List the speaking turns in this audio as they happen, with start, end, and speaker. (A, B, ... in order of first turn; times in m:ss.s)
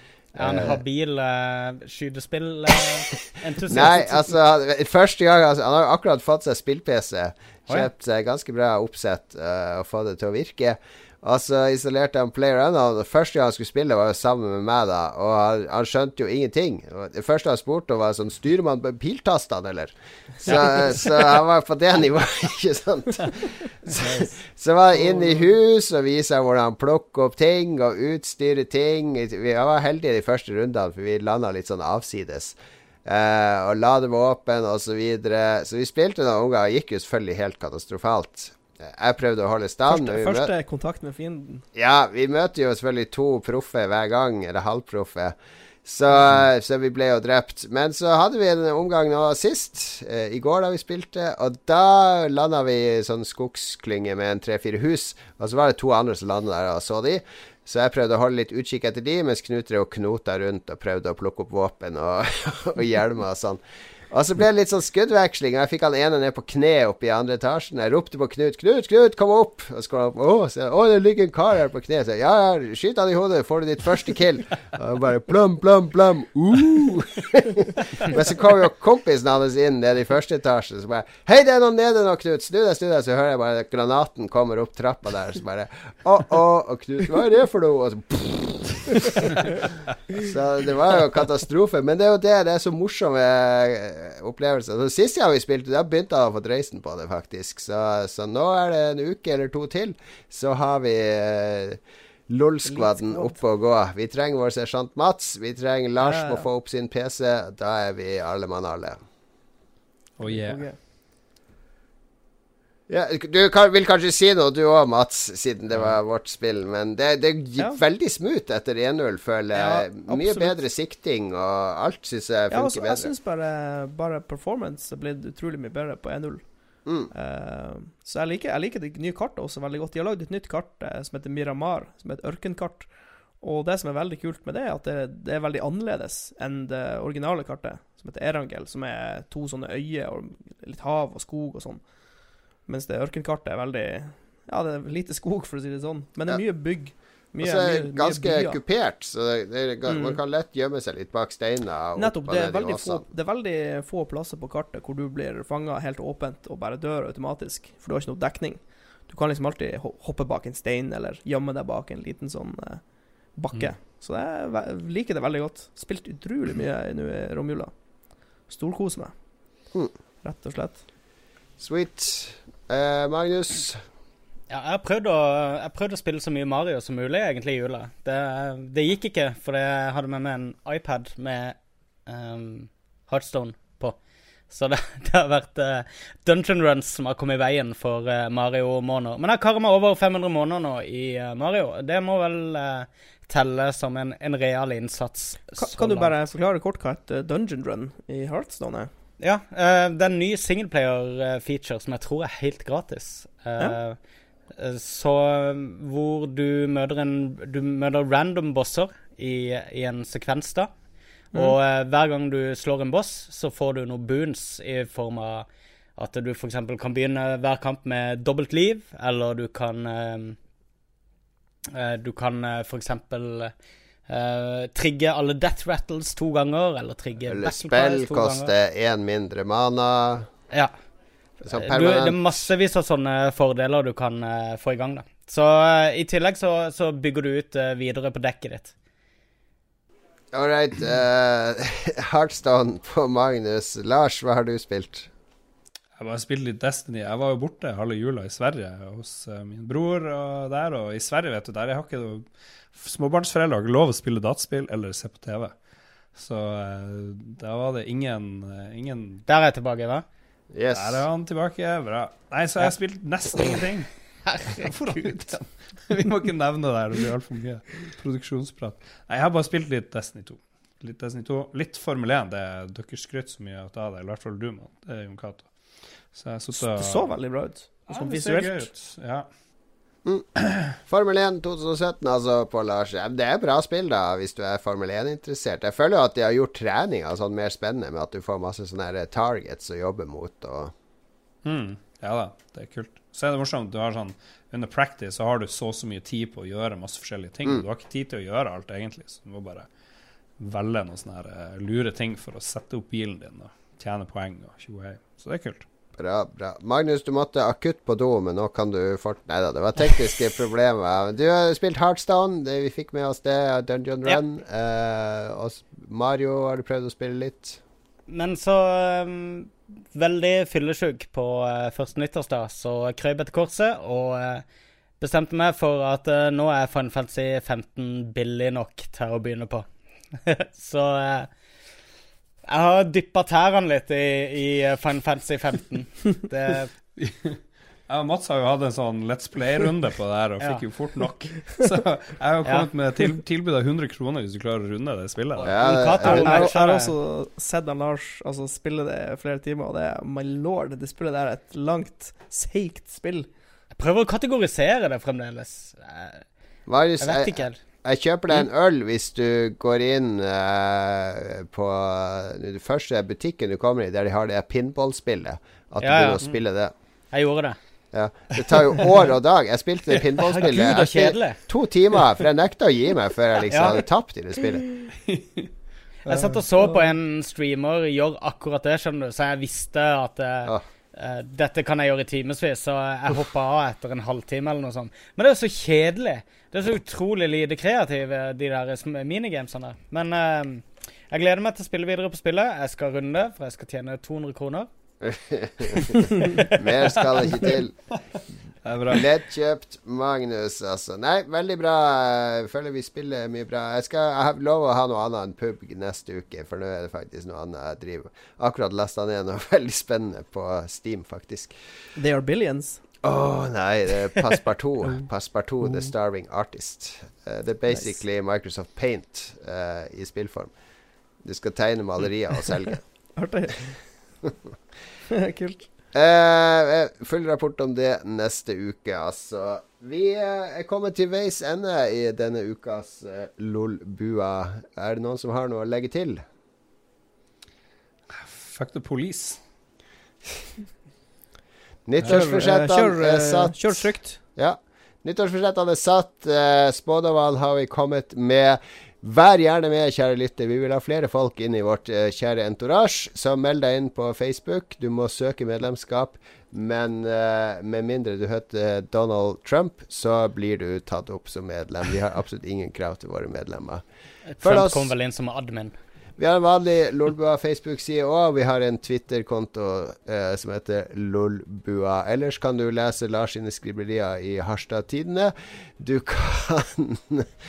0:00.3-0:00.8 A
0:00.4-0:04.4 B
0:03.7-0:40.5 A
0:20.4-0:20.9 C
0:24.9-0:25.4 C
0:39.9-0:41.6 C
0:41.8-1:49.0 A
1:42.6-1:43.4 C
1:46.0-1:46.4 C
1:50.2-1:50.6 D
1:50.2-1:50.8 C
1:52.9-2:03.1 A
1:59.5-2:00.6 C
2:02.5-2:06.4 C
2:06.8-2:07.1 A
2:07.1-2:12.9 C
2:13.4-2:21.8 C
2:22.6-2:28.6 C
2:27.4-2:33.0 A
2:29.9-2:30.2 C
2:32.0-2:42.8 C
2:43.4-2:47.7 C
2:48.5-2:49.1 C
2:50.2-2:50.8 C
2:51.6-2:53.8 A
2:54.5-3:01.5 B
3:02.0-3:04.0 B
3:04.5-3:16.2 B
3:15.6-3:18.9 C
3:19.2-3:24.0 B
3:24.5-3:30.7 B
3:31.3-3:40.4 B
3:41.7-3:43.5 B
3:44.1-3:48.5 B
3:47.3-3:50.3 A
3:51.4-3:58.7 B
3:51.4-3:52.5 A
4:00.3-4:05.1 A
4:06.0-4:15.5 D
4:16.1-4:19.2 D
4:19.3-4:20.0 B
4:20.5-4:21.0 A
4:20.7-4:23.9 D
4:24.3-4:25.1 B
4:24.5-4:35.5 D
4:36.1-4:37.2 D
4:36.5-4:38.7 C
4:37.8-4:39.3 D
4:40.8-4:50.7 A
4:51.4-4:59.7 D
5:00.4-5:05.6 D
5:06.0-5:17.6 A
5:18.1-5:24.4 B
5:25.0-5:29.6 B
5:30.2-5:31.3 B
5:32.5-5:36.7 B
5:37.0-5:45.6 D
5:45.4-5:46.9 B
5:45.4-5:46.4 A
5:46.0-5:53.3 C
5:53.8-5:56.2 B
5:56.7-6:06.7 A
5:57.0-5:57.6 B
6:05.8-6:06.3 B
6:07.1-6:07.6 B
6:07.9-6:14.7 A
6:10.2-6:11.4 B
6:13.5-6:13.8 B
6:15.1-6:15.5 D
6:16.0-6:34.7 B
6:35.0-6:37.9 A
6:38.6-6:39.0 D
6:38.9-6:51.5 A
6:52.0-6:52.8 C
6:53.0-7:00.5 A
7:01.2-7:02.8 A
7:03.2-7:03.8 C
7:05.1-7:05.7 C
7:05.9-7:16.2 A
7:18.1-7:19.4 D
7:21.9-7:43.8 A
7:22.0-7:22.4 D
7:22.0-7:24.2 C
7:44.3-7:45.7 B
7:44.4-7:44.9 A
7:46.2-7:57.3 A